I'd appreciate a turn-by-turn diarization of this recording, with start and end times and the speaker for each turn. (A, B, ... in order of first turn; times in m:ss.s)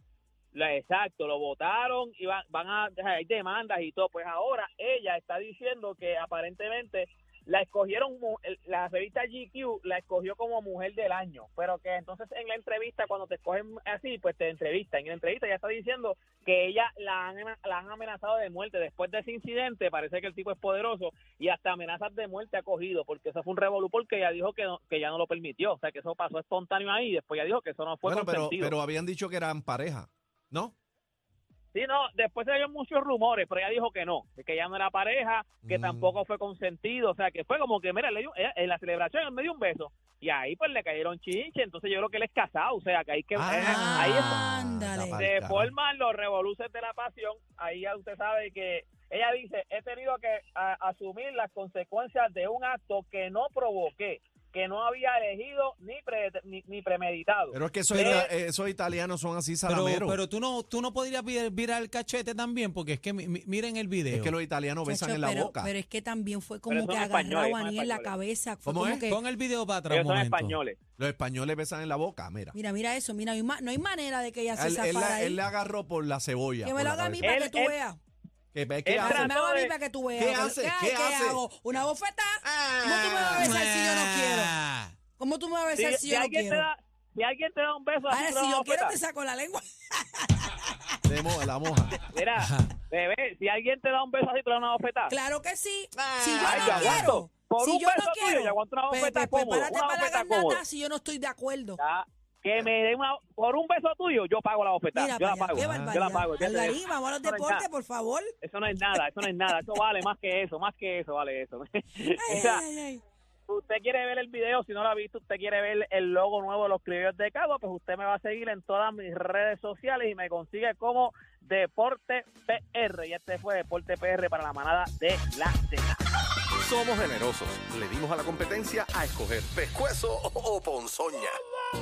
0:00.5-0:28.7 A
0:28.0-0:30.7 B
0:31.7-0:44.4 A
0:35.6-0:36.1 B
0:43.3-0:45.7 B
0:43.4-0:45.2 C
0:45.2-0:58.3 A
0:57.5-1:00.2 B
0:57.9-0:58.3 D
0:59.7-1:04.3 D
1:04.1-1:05.7 B
1:04.8-1:09.2 C
1:06.7-1:08.1 A
1:08.6-1:09.0 B
1:09.0-1:10.6 D
1:09.9-1:10.8 A
1:11.0-1:12.6 B
1:12.5-1:15.4 C
1:14.5-1:17.3 B
1:16.6-1:18.0 C
1:17.2-1:17.8 A
1:18.5-1:19.3 B
1:18.8-1:19.7 A
1:19.0-1:24.5 C
1:20.1-1:21.4 B
1:22.4-1:23.5 B
1:23.4-1:24.9 D
1:25.2-1:26.6 C
1:25.8-1:29.0 A
1:28.1-1:30.8 C
1:31.1-1:32.0 B
1:32.1-1:35.2 A
1:32.4-1:32.7 D
1:35.1-1:41.8 C
1:35.9-1:37.2 B
1:36.4-1:40.6 A
1:41.8-1:47.6 A
1:44.9-1:48.3 C
1:45.5-1:45.9 B
1:48.4-1:52.6 A
1:48.9-1:49.8 C
1:52.2-1:53.0 C
1:53.5-2:06.0 A
2:06.6-2:11.4 E